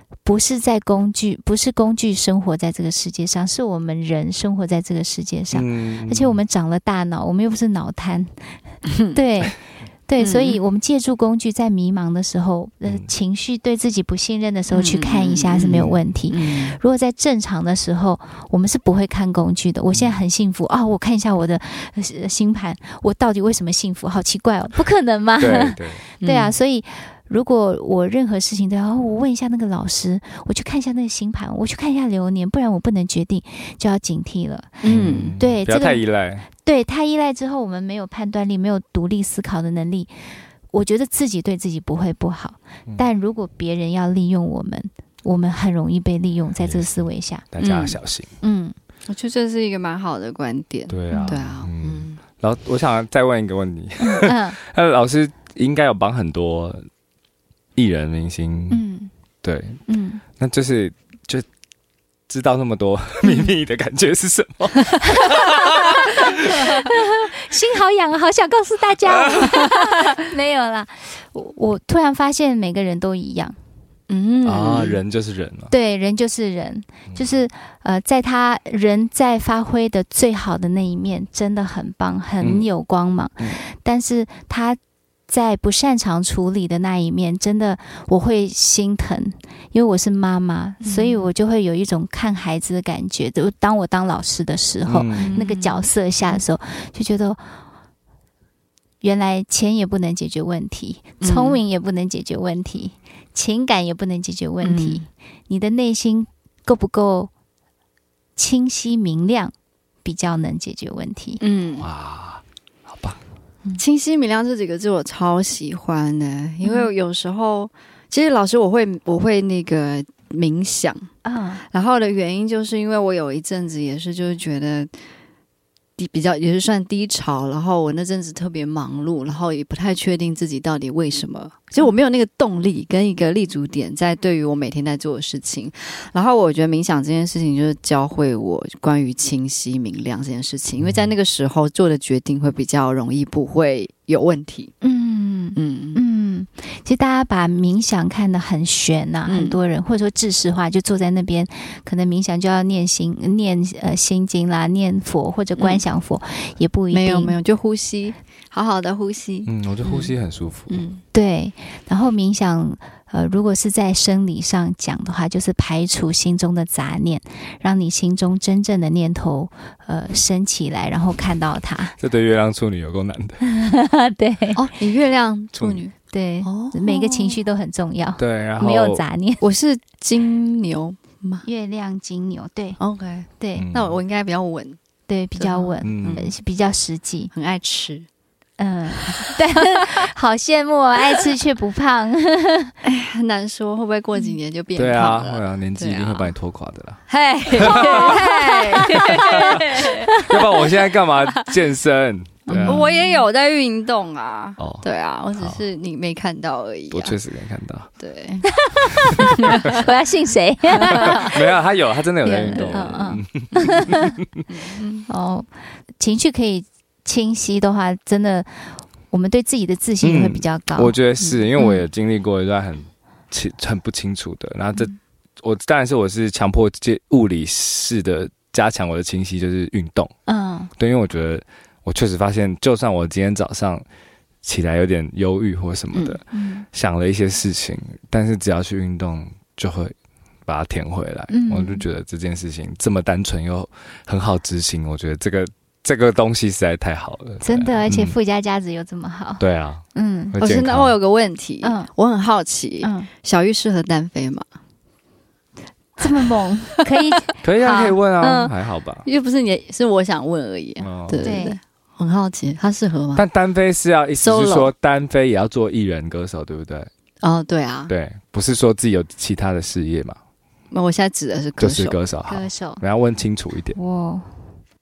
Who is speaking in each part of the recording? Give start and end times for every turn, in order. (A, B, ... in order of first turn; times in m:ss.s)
0:00.2-0:08.6 A
0:05.5-0:06.4 B
0:08.9-0:09.2 C
0:09.1-0:40.2 A
0:10.2-0:10.6 C
0:14.7-0:16.8 C
0:19.9-0:20.2 B
0:25.4-0:26.0 B
0:26.2-0:26.6 C
0:34.8-0:35.3 C
0:34.8-0:36.5 B
0:40.7-0:47.5 A
0:46.6-0:48.3 B
0:47.6-0:48.0 C
0:48.4-0:48.8 A
0:49.1-0:52.2 C
0:50.9-0:56.9 B
0:51.1-0:51.4 A
0:54.0-0:54.6 A
0:57.8-0:58.8 B
0:58.7-0:59.1 A
0:59.4-0:59.8 B
0:59.9-1:00.2 A
1:00.4-1:01.5 B
1:02.3-1:06.9 B
1:05.0-1:13.6 A
1:09.2-1:09.6 B
1:14.1-1:15.0 C
1:14.4-1:15.7 B
1:15.7-1:24.8 A
1:22.4-1:22.7 B
1:25.3-1:37.4 A
1:30.8-1:31.2 C
1:34.9-1:35.4 B
1:35.2-1:36.4 C
1:39.0-1:47.3 A
1:41.2-1:41.6 C
1:44.6-1:45.0 C
1:48.4-1:49.5 A
1:50.0-1:51.4 A
1:51.4-1:51.9 C
1:51.8-1:53.2 B
1:53.8-2:01.1 C
1:56.6-1:56.9 A
2:01.2-2:01.6 A
2:01.7-2:04.9 C
2:06.0-2:24.7 C
2:20.8-2:21.1 B
2:24.8-2:37.3 A
2:25.6-2:26.0 C
2:29.3-2:29.6 C
2:35.6-2:35.8 C
2:36.9-2:40.1 C
2:39.5-2:40.8 B
2:40.7-2:41.0 C
2:41.1-2:52.0 A
2:52.0-2:53.4 B
2:53.4-2:54.6 A
2:54.6-2:57.4 C
2:55.6-2:55.8 B
2:56.1-2:59.4 A
2:58.2-2:59.0 B
2:59.4-3:01.5 C
3:01.4-3:02.8 A
3:02.8-3:04.8 C
3:03.4-3:03.7 A
3:03.6-3:04.0 B
3:05.1-3:07.3 A
3:05.4-3:06.3 C
3:05.8-3:06.3 B
3:07.3-3:08.1 C
3:08.6-3:12.7 A
3:09.1-3:09.9 C
3:12.8-3:16.3 C
3:14.8-3:17.0 B
3:17.1-3:20.1 C
3:17.6-3:18.2 B
3:18.8-3:19.5 A
3:18.9-3:22.9 B
3:20.1-3:20.6 A
3:22.5-3:23.2 A
3:22.5-3:27.2 C
3:24.6-3:24.8 B
3:26.9-3:27.9 B
3:28.0-3:28.5 C
3:28.5-3:31.5 A
3:29.2-3:29.8 C
3:30.8-3:31.2 C
3:30.8-3:34.4 B
3:32.2-3:34.2 A
3:34.5-3:35.1 C
3:35.1-3:35.5 A
3:36.0-3:41.0 A
3:40.0-3:50.1 B
3:41.6-3:41.8 A
3:50.3-3:50.7 A
3:50.8-3:53.8 B
3:54.4-4:00.0 B
3:55.9-3:56.2 C
3:56.3-3:56.7 A
4:00.5-4:08.2 B
4:01.3-4:01.9 A
4:07.4-4:09.4 A
4:09.4-4:10.9 B
4:10.0-4:10.4 A
4:10.4-4:14.4 C
4:11.6-4:11.9 A
4:12.8-4:13.1 A
4:16.0-4:17.4 A
4:17.4-4:19.1 B
4:17.6-4:18.5 C
4:19.0-4:23.2 C
4:20.8-4:21.3 B
4:21.2-4:21.6 A
4:23.2-4:26.9 B
4:24.2-4:24.7 C
4:27.2-4:27.9 C
4:27.9-4:30.2 B
4:30.7-4:32.0 C
4:31.6-4:33.8 B
4:32.3-4:32.8 A
4:33.8-4:34.3 A